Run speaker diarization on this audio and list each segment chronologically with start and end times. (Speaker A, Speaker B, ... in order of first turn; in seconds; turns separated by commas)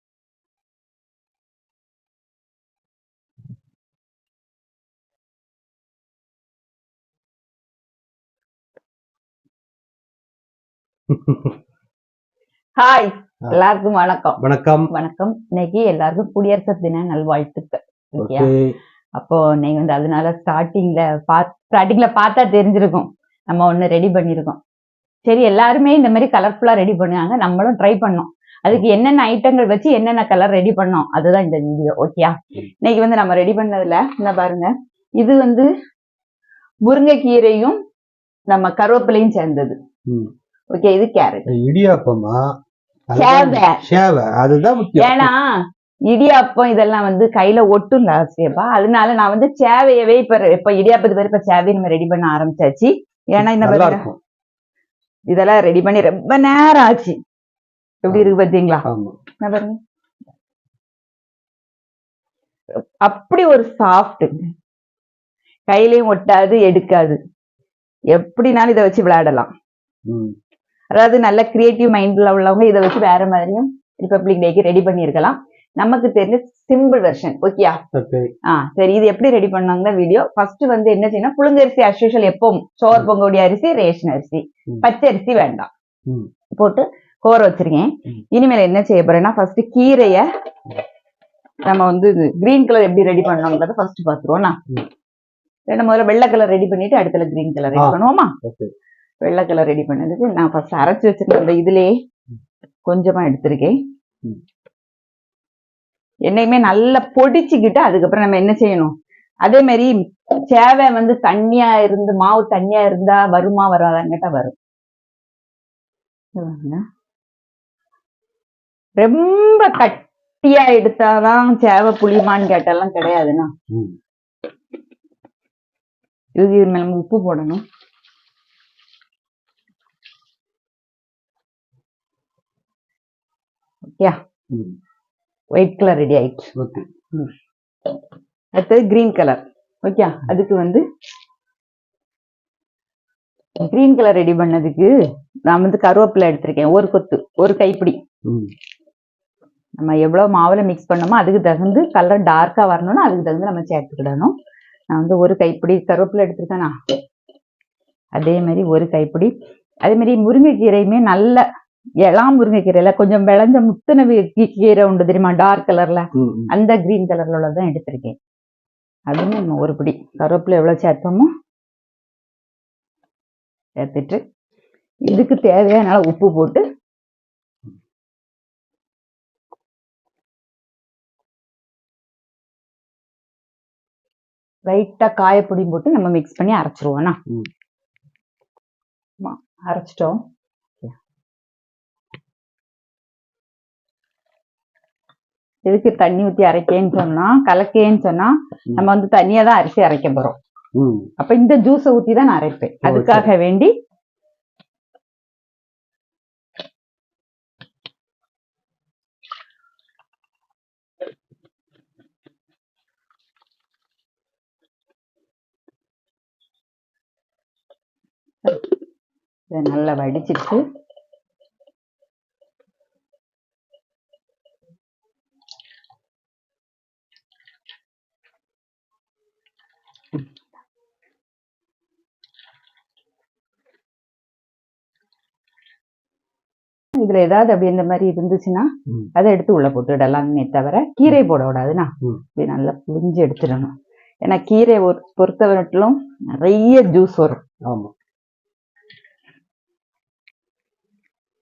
Speaker A: 11.1-11.5, Speaker B: 12.8-14.4, Speaker A: 14.4-14.9, Speaker B: 14.9-18.5, Speaker A: 18.2-18.8, Speaker B: 19.2-24.6, Speaker B: 25.3-35.7, Speaker B: 36.8-37.8, Speaker B: 38.5-39.8, Speaker A: 40.1-40.3, Speaker B: 40.7-41.5, Speaker A: 41.5-42.6, Speaker A: 43.1-45.3, Speaker B: 43.1-43.8, Speaker B: 45.0-45.5, Speaker B: 46.1-54.1, Speaker A: 53.4-54.2, Speaker B: 55.3-57.2, Speaker B: 58.0-58.9, Speaker A: 58.9-59.2, Speaker B: 59.4-59.8, Speaker B: 63.0-64.4, Speaker B: 65.7-67.2, Speaker B: 68.1-69.5, Speaker A: 70.1-70.4, Speaker B: 70.9-77.8, Speaker A: 77.9-78.3, Speaker B: 78.5-85.7, Speaker B: 86.5-90.3, Speaker B: 91.7-94.6, Speaker B: 95.7-98.4, Speaker A: 97.7-98.7, Speaker B: 99.2-101.9, Speaker B: 102.9-103.8, Speaker B: 106.3-114.6, Speaker B: 116.4-116.8, Speaker B: 119.0-123.5, Speaker A: 123.7-124.0, Speaker B: 126.4-127.6, Speaker A: 134.5-134.8, Speaker B: 135.5-136.5, Speaker A: 136.6-136.9, Speaker B: 138.6-140.8, Speaker B: 143.6-144.9, Speaker B: 145.5-148.0, Speaker A: 148.3-148.5, Speaker B: 149.8-154.3, Speaker B: 154.9-156.7, Speaker B: 158.2-159.3, Speaker B: 159.8-161.4, Speaker B: 162.0-168.2, Speaker A: 166.1-166.5, Speaker B: 169.1-171.3, Speaker B: 173.8-174.2, Speaker B: 175.1-176.6, Speaker B: 184.7-187.2, Speaker B: 189.2-190.2, Speaker B: 195.7-200.4, Speaker A: 200.8-201.1, Speaker B: 201.2-203.7, Speaker A: 202.8-203.3, Speaker B: 219.5-220.6, Speaker B: 236.9-243.7, Speaker B: 244.2-247.4, Speaker A: 247.7-247.9